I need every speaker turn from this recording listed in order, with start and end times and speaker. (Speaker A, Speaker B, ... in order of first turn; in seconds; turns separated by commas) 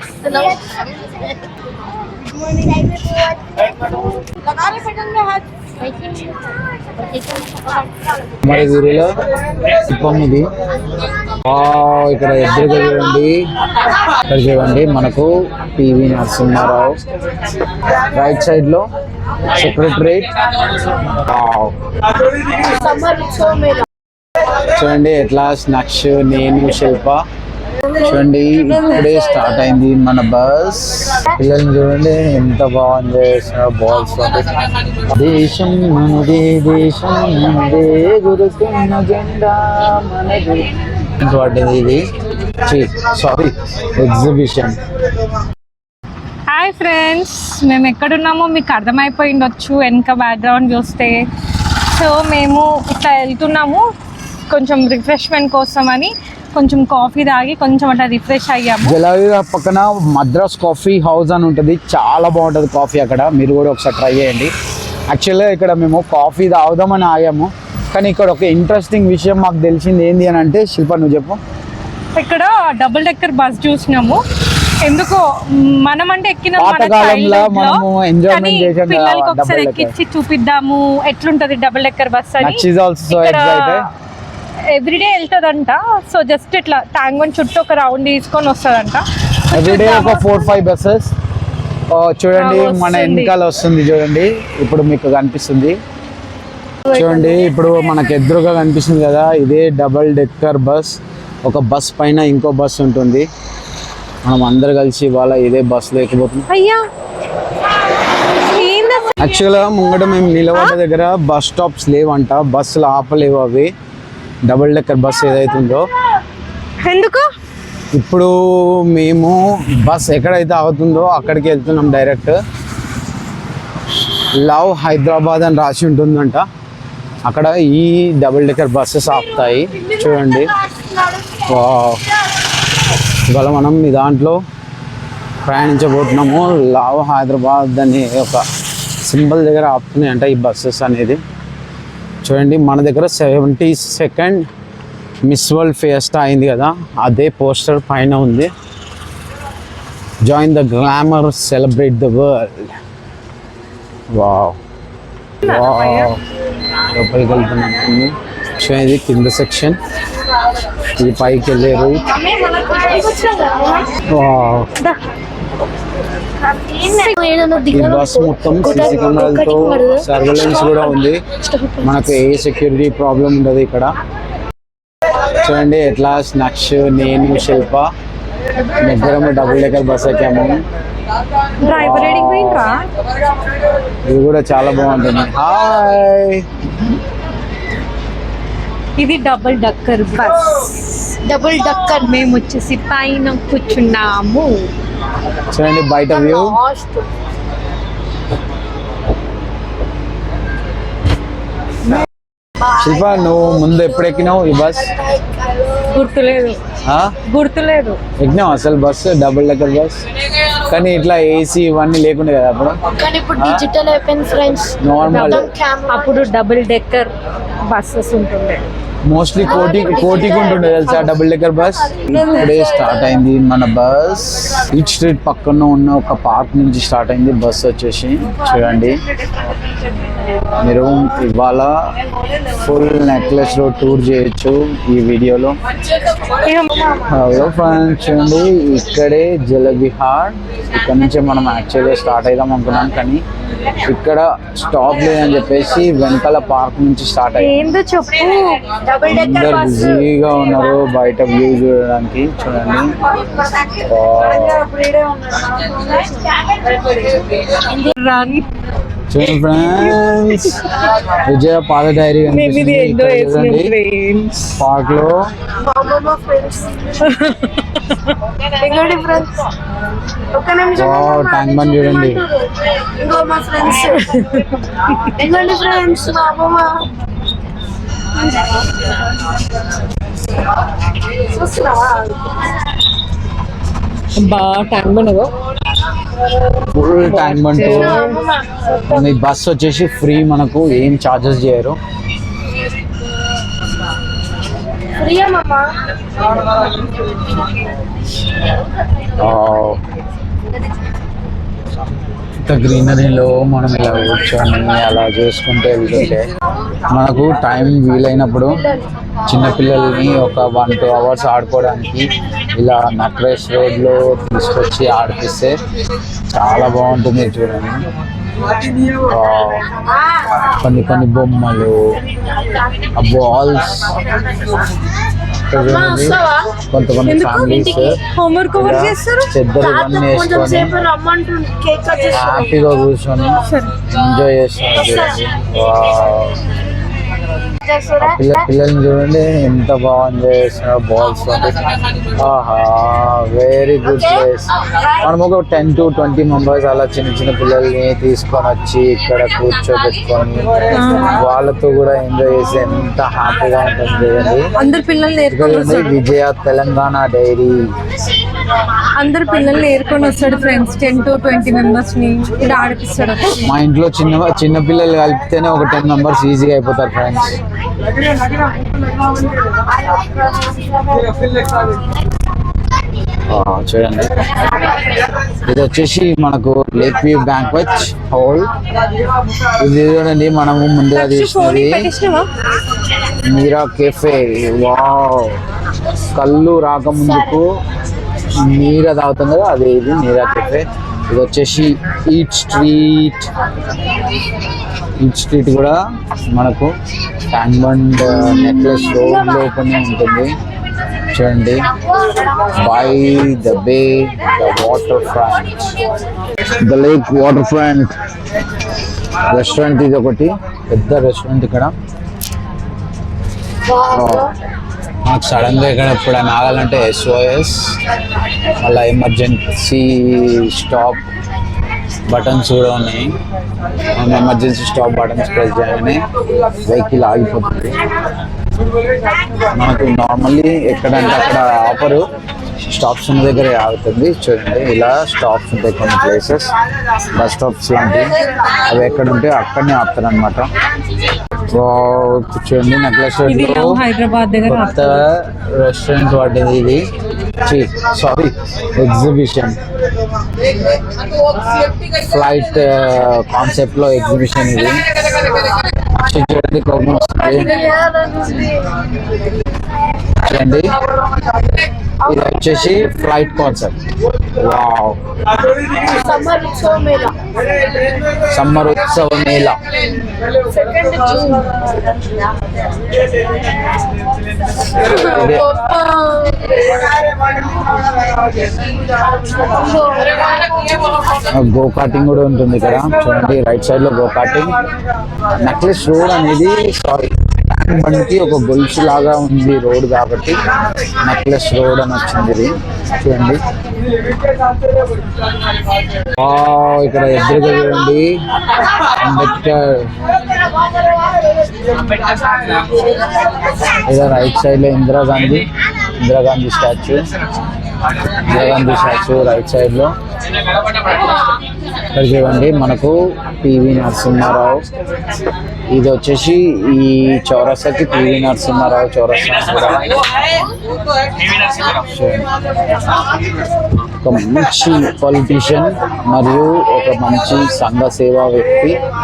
Speaker A: 0.3-0.6, Speaker B: 8.4-9.2, Speaker B: 9.9-10.5, Speaker B: 11.4-13.4, Speaker B: 14.3-17.0, Speaker B: 18.1-18.9, Speaker B: 19.5-20.3, Speaker B: 21.1-21.8, Speaker A: 22.6-23.8, Speaker B: 24.8-27.2, Speaker B: 28.0-34.5, Speaker B: 35.1-42.0, Speaker B: 42.6-44.8, Speaker C: 46.5-53.9, Speaker C: 54.5-59.0, Speaker B: 58.8-64.5, Speaker B: 65.1-71.4, Speaker C: 72.1-74.2, Speaker C: 74.8-83.8, Speaker B: 76.6-79.9, Speaker B: 82.4-83.9, Speaker C: 84.7-90.4, Speaker B: 89.5-91.1, Speaker B: 91.9-95.8, Speaker C: 92.3-93.3, Speaker C: 96.9-97.7, Speaker B: 96.9-103.3, Speaker B: 104.2-106.5, Speaker C: 106.5-106.8, Speaker C: 108.3-109.3, Speaker B: 109.2-113.7, Speaker B: 114.5-115.9, Speaker C: 116.8-117.3, Speaker B: 117.9-122.4, Speaker B: 124.4-126.5, Speaker B: 127.3-130.5, Speaker A: 129.8-130.1, Speaker B: 131.4-132.0, Speaker B: 133.3-134.4, Speaker B: 135.4-141.2, Speaker B: 142.2-144.5, Speaker B: 145.3-148.5, Speaker B: 150.2-152.8, Speaker B: 154.1-154.6, Speaker C: 155.4-156.1, Speaker B: 155.4-156.2, Speaker B: 156.9-159.8, Speaker B: 161.0-162.0, Speaker A: 162.2-163.9, Speaker B: 164.1-164.7, Speaker A: 166.5-170.1, Speaker C: 166.9-167.2, Speaker B: 167.7-171.2, Speaker A: 171.5-172.0, Speaker B: 171.8-173.9, Speaker B: 175.4-177.9, Speaker B: 178.8-180.6, Speaker C: 181.6-182.8, Speaker B: 181.7-182.7, Speaker B: 184.1-186.5, Speaker C: 189.0-194.7, Speaker A: 191.3-192.1, Speaker B: 195.5-196.6, Speaker A: 196.1-197.1, Speaker A: 202.7-205.9, Speaker B: 202.8-204.9, Speaker C: 205.9-206.6, Speaker B: 206.8-207.1, Speaker C: 207.3-208.0, Speaker B: 208.2-210.0, Speaker B: 210.7-212.8, Speaker A: 213.0-216.3, Speaker B: 213.4-213.6, Speaker B: 214.8-215.5, Speaker C: 215.1-217.1, Speaker C: 217.7-218.6, Speaker B: 219.1-229.0, Speaker A: 219.4-221.1, Speaker C: 222.1-222.4, Speaker B: 230.6-231.7, Speaker B: 232.6-235.6, Speaker C: 236.4-237.1, Speaker B: 237.1-243.2, Speaker B: 243.8-247.7, Speaker C: 247.4-248.6, Speaker A: 248.8-250.1, Speaker B: 249.1-253.0, Speaker B: 253.8-254.7, Speaker C: 257.9-258.5, Speaker B: 259.1-260.6, Speaker B: 261.2-263.7, Speaker C: 262.3-264.6, Speaker B: 264.6-265.3, Speaker A: 265.6-267.1, Speaker C: 267.0-268.1, Speaker A: 268.6-269.5, Speaker A: 270.3-274.3, Speaker B: 270.7-272.2, Speaker C: 273.9-274.5, Speaker A: 275.1-276.9, Speaker A: 281.3-282.4, Speaker C: 284.2-285.3, Speaker B: 286.7-288.0, Speaker C: 287.0-288.2, Speaker A: 287.6-289.1, Speaker B: 288.9-291.8, Speaker A: 295.0-295.7, Speaker B: 299.2-299.8, Speaker B: 302.4-306.3, Speaker B: 306.9-308.6, Speaker A: 308.5-308.8, Speaker B: 309.3-315.6, Speaker B: 316.3-317.8, Speaker B: 319.0-319.6, Speaker B: 320.6-321.9, Speaker B: 322.9-323.9, Speaker B: 325.5-326.2, Speaker A: 325.5-326.5, Speaker B: 326.7-328.0, Speaker C: 327.0-329.3, Speaker B: 328.5-330.7, Speaker A: 329.6-332.7, Speaker B: 332.1-336.4, Speaker C: 333.5-333.7, Speaker A: 334.8-335.2, Speaker A: 337.6-338.4, Speaker B: 338.0-341.6, Speaker B: 342.1-344.5, Speaker B: 345.0-354.5, Speaker C: 350.7-351.2, Speaker C: 354.6-355.9, Speaker B: 355.3-357.7, Speaker C: 359.0-363.5, Speaker B: 363.4-367.4, Speaker A: 369.8-371.7, Speaker B: 373.3-374.2, Speaker B: 375.4-378.5, Speaker B: 379.6-381.9, Speaker C: 380.9-382.3, Speaker B: 383.2-385.4, Speaker B: 386.1-387.5, Speaker B: 388.4-393.3, Speaker B: 395.0-395.8, Speaker B: 396.3-396.7, Speaker B: 397.3-400.3, Speaker B: 401.1-401.6, Speaker B: 402.5-405.7, Speaker B: 406.6-407.9, Speaker B: 409.3-411.8, Speaker A: 413.7-414.3, Speaker B: 413.9-414.3, Speaker B: 415.0-417.8, Speaker B: 418.6-421.0, Speaker B: 422.1-423.2, Speaker B: 423.9-426.1, Speaker B: 426.6-427.8, Speaker B: 429.5-432.1, Speaker B: 432.7-436.5, Speaker B: 437.1-438.1, Speaker B: 438.7-440.5, Speaker B: 441.5-443.8, Speaker C: 443.2-444.9, Speaker B: 444.4-446.8, Speaker B: 447.4-449.6, Speaker B: 452.1-454.9, Speaker B: 456.0-457.6, Speaker A: 457.1-458.6, Speaker B: 460.2-460.8, Speaker A: 462.0-462.8, Speaker B: 462.1-463.8, Speaker B: 464.4-465.0, Speaker A: 465.9-467.2, Speaker B: 468.3-469.6, Speaker A: 470.5-471.6, Speaker A: 474.8-476.9, Speaker B: 475.0-475.5, Speaker A: 479.3-480.2, Speaker B: 481.3-484.6, Speaker B: 485.4-490.4, Speaker B: 491.0-493.4, Speaker B: 496.1-498.2, Speaker B: 499.0-499.9, Speaker B: 503.9-505.5, Speaker B: 506.0-507.0, Speaker B: 508.2-509.9, Speaker B: 511.9-514.7, Speaker B: 515.7-520.0, Speaker B: 521.8-522.3, Speaker B: 524.0-528.8